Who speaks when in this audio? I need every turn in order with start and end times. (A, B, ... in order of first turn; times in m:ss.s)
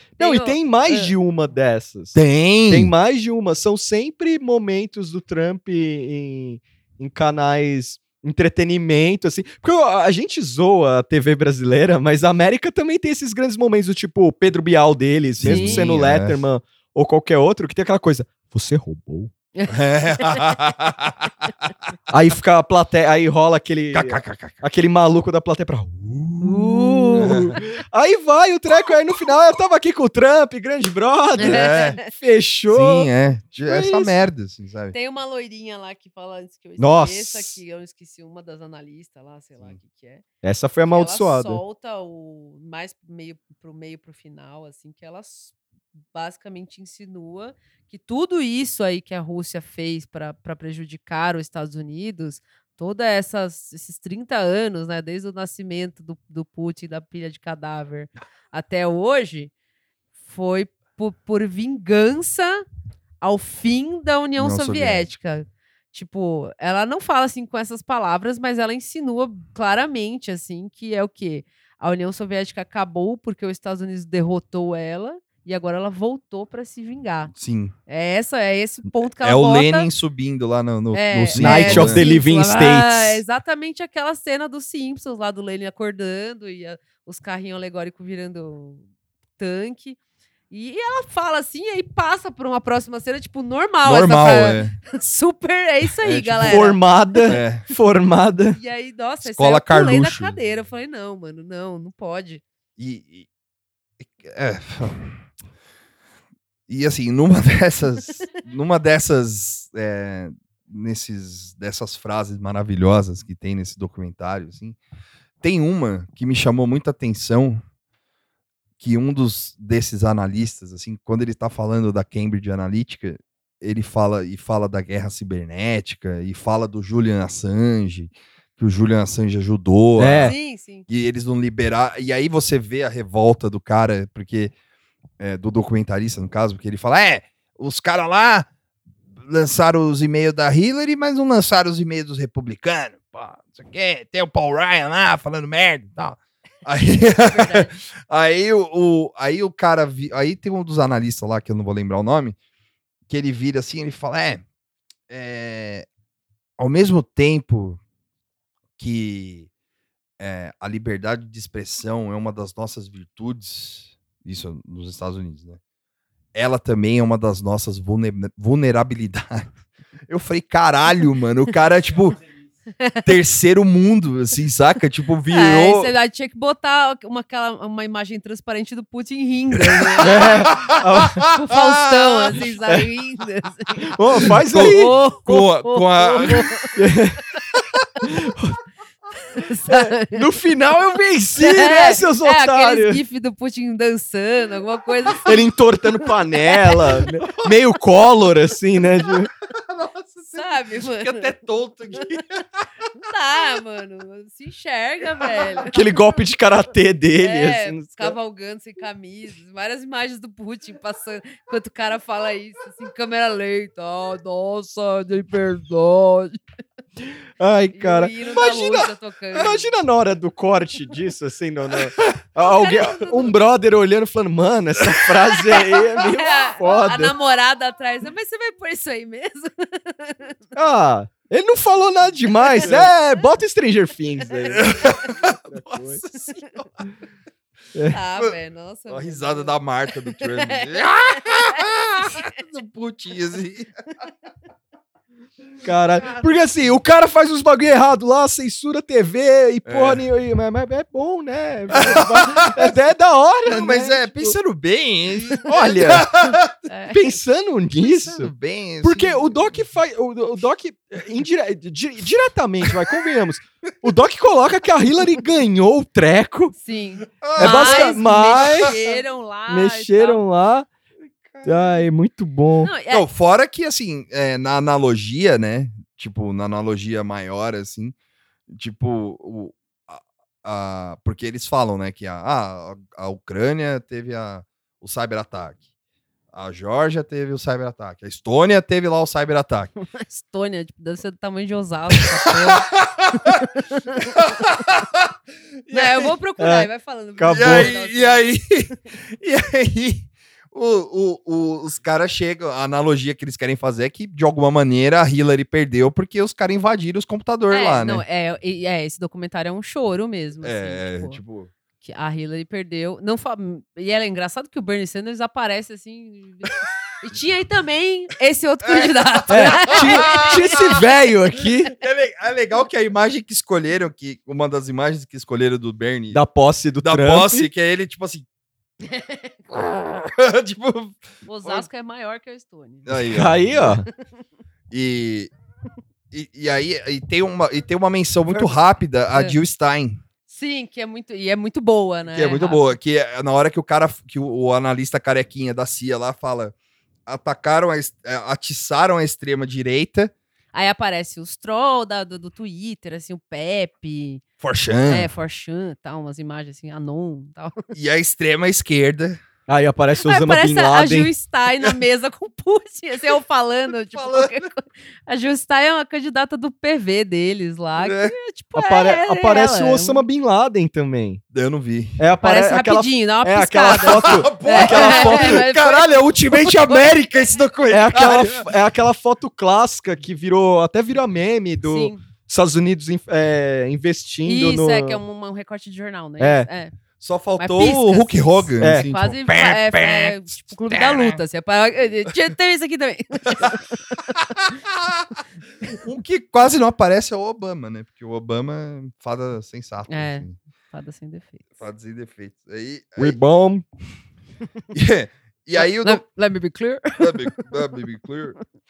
0:00.2-0:19.3 A
0:00.2-0:01.1 B
0:02.2-0:02.9 C
0:15.4-0:16.4 C
0:15.4-0:15.9 B
0:19.6-0:20.5 B
0:19.7-0:21.3 C
0:22.1-0:33.1 A
0:23.9-0:24.6 C
0:26.4-0:27.6 B
0:27.2-0:27.6 C
0:31.4-0:32.1 B
0:31.4-0:32.0 C
0:32.7-0:35.0 C
0:33.7-0:34.1 A
0:34.9-0:40.2 B
0:36.8-0:37.6 A
0:40.4-0:41.6 A
0:40.9-0:45.5 B
0:46.1-0:59.5 B
1:00.2-1:02.6 B
1:03.2-1:17.3 B
1:04.4-1:05.1 C
1:17.3-1:17.7 C
1:17.9-1:19.9 B
1:19.2-1:22.0 C
1:20.9-1:28.8 B
1:21.4-1:23.2 A
1:29.4-1:30.0 B
1:30.5-1:37.4 B
1:33.8-1:34.8 C
1:36.0-1:36.6 C
1:36.4-1:38.6 A
1:37.3-1:37.6 C
1:38.6-1:42.4 B
1:39.2-1:40.4 C
1:42.8-1:43.3 C
1:44.0-1:45.3 C
1:46.7-1:54.8 C
1:55.4-1:57.6 C
1:58.8-2:14.5 C
2:10.0-2:10.3 A
2:10.2-2:10.9 B
2:15.2-2:18.5 C
2:19.2-2:32.4 C
2:27.2-2:27.8 B
2:33.1-2:34.4 C
2:35.1-2:35.9 C
2:36.6-2:37.8 C
2:38.8-2:39.5 C
2:40.2-2:45.6 C
2:46.3-2:49.5 C
2:50.1-2:52.2 C
2:52.8-2:53.0 B
2:53.0-2:55.9 C
2:55.3-3:00.5 B
2:59.6-3:02.4 C
3:00.0-3:01.3 A
3:01.3-3:06.8 B
3:03.9-3:05.0 A
3:04.5-3:06.4 C
3:06.2-3:07.2 A
3:08.0-3:08.6 A
3:09.3-3:10.2 B
3:09.7-3:13.0 A
3:11.4-3:15.5 B
3:15.2-3:19.3 A
3:16.5-3:17.0 B
3:19.6-3:22.4 C
3:20.3-3:21.3 B
3:23.0-3:26.2 B
3:25.2-3:25.6 C
3:25.7-3:28.2 A
3:27.2-3:36.4 B
3:37.4-3:47.1 A
3:37.7-3:39.7 B
3:42.4-3:43.3 B
3:45.6-3:50.4 B
3:50.6-3:54.8 A
3:52.6-3:52.9 C
3:54.5-3:56.6 C
3:55.4-3:56.0 A
3:57.9-3:59.6 B
3:58.9-4:03.7 C
4:00.2-4:02.4 B
4:05.6-4:14.4 A
4:09.6-4:10.0 C
4:11.8-4:12.7 C
4:13.5-4:16.6 C
4:15.4-4:16.2 A
4:16.7-4:17.0 B
4:16.9-4:18.3 A
4:17.8-4:19.4 C
4:18.8-4:26.6 A
4:26.6-4:30.2 B
4:27.2-4:28.8 C
4:27.4-4:30.7 A
4:31.2-4:31.8 C
4:31.4-4:32.7 A
4:32.6-4:33.1 B
4:32.9-4:38.0 C
4:38.5-4:45.6 C
4:46.3-4:49.7 C
4:49.8-4:52.7 B
4:52.7-4:53.5 C
4:53.2-4:54.2 B
4:54.0-4:55.1 C
4:55.7-4:56.1 C
4:55.7-4:58.3 B
4:56.4-4:57.7 A
4:57.3-5:08.0 C
5:07.5-5:11.2 B
5:10.4-5:11.5 C
5:11.8-5:20.6 B
5:18.6-5:20.6 C
5:19.3-5:21.7 A
5:21.8-5:26.2 C
5:26.1-5:27.5 A
5:26.8-5:28.2 C
5:28.9-5:29.3 B
5:29.5-5:31.7 C
5:31.2-5:33.0 B
5:32.9-5:33.8 C
5:33.1-5:33.9 A
5:34.7-5:35.3 C
5:36.1-5:40.0 C
5:40.3-5:42.8 B
5:42.1-5:46.6 C
5:47.1-5:50.1 C
5:50.5-5:54.2 B
5:54.4-5:55.1 C
5:54.9-5:57.7 B
5:57.7-5:59.2 C
5:59.5-6:01.1 A
6:00.0-6:10.0 B
6:03.9-6:04.4 C
6:07.8-6:08.1 C
6:08.6-6:11.2 A
6:11.3-6:12.0 C
6:12.0-6:15.4 A
6:12.2-6:16.9 B
6:13.8-6:18.5 C
6:17.7-6:25.0 A
6:21.6-6:22.0 B
6:24.2-6:26.7 B
6:26.2-6:26.5 A
6:27.0-6:31.2 C
6:27.4-6:34.6 B
6:28.6-6:28.9 A
6:34.4-6:35.2 C
6:35.7-6:40.4 C
6:39.9-6:41.6 B
6:41.6-6:43.2 C
6:43.0-6:43.6 A
6:44.7-6:46.0 C
6:45.6-6:47.5 B
6:47.0-6:48.4 C